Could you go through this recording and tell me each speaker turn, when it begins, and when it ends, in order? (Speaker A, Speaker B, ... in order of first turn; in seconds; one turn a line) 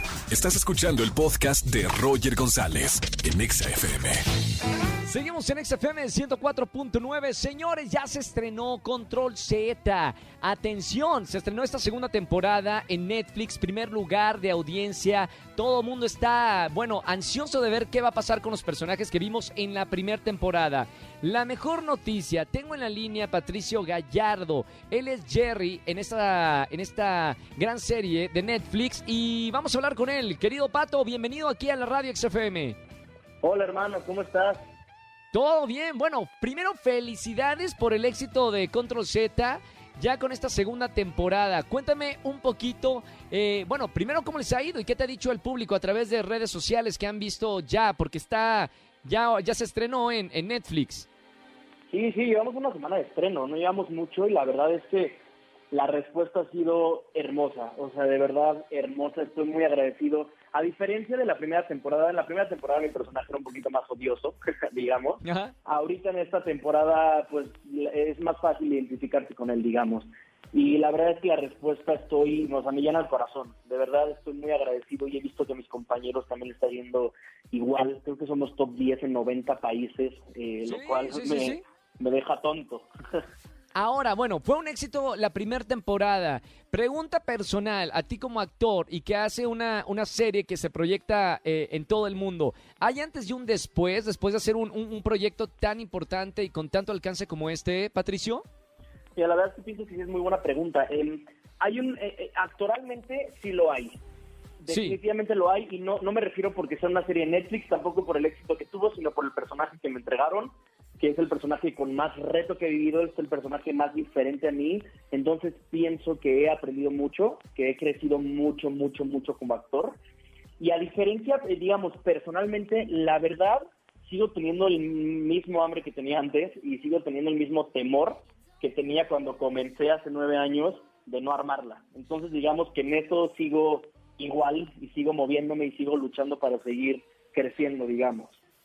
Speaker A: 0.3-4.2
Speaker B: 5.0-32.8
Speaker C: 33.4-34.6
Speaker B: 35.3-51.1
Speaker C: 51.9-82.9
Speaker B: 65.2-65.5
Speaker B: 80.7-81.6
Speaker B: 83.8-98.4
Speaker C: 99.2-104.0
Speaker C: 104.6-120.0
Speaker B: 104.7-105.0
Speaker C: 120.6-138.4